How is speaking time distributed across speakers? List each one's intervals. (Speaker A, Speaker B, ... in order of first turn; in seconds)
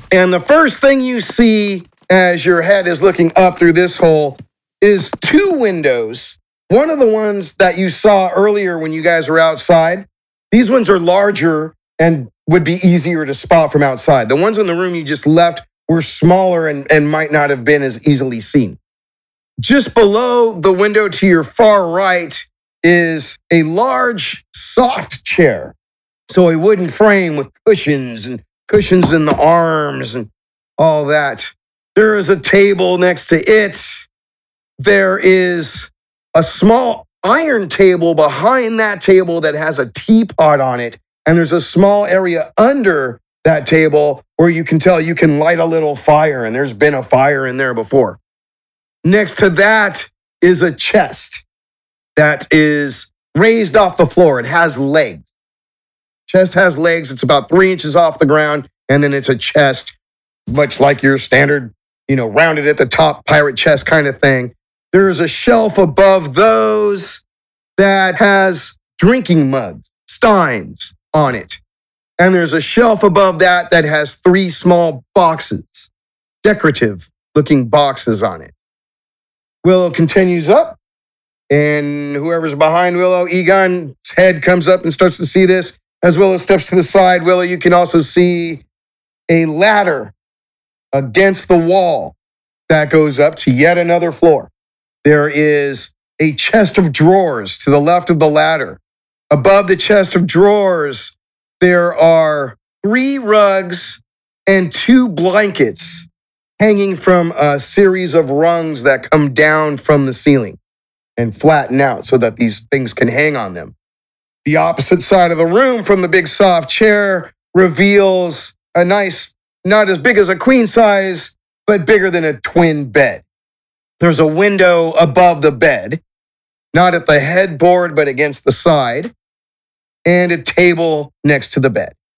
Speaker A: 0.1-18.8, 19.6-25.7, 26.3-34.1, 34.8-48.2, 49.0-51.4, 52.2-55.3, 56.3-59.9, 60.5-67.2, 67.8-71.6, 72.2-75.9, 76.4-78.5, 79.6-80.8, 81.5-88.6, 89.3-90.1, 90.9-92.2, 92.7-94.5, 95.0-98.8, 99.3-106.1, 106.6-110.6, 111.2-113.7, 114.5-123.2, 124.0-126.0, 126.7-129.1, 130.1-131.9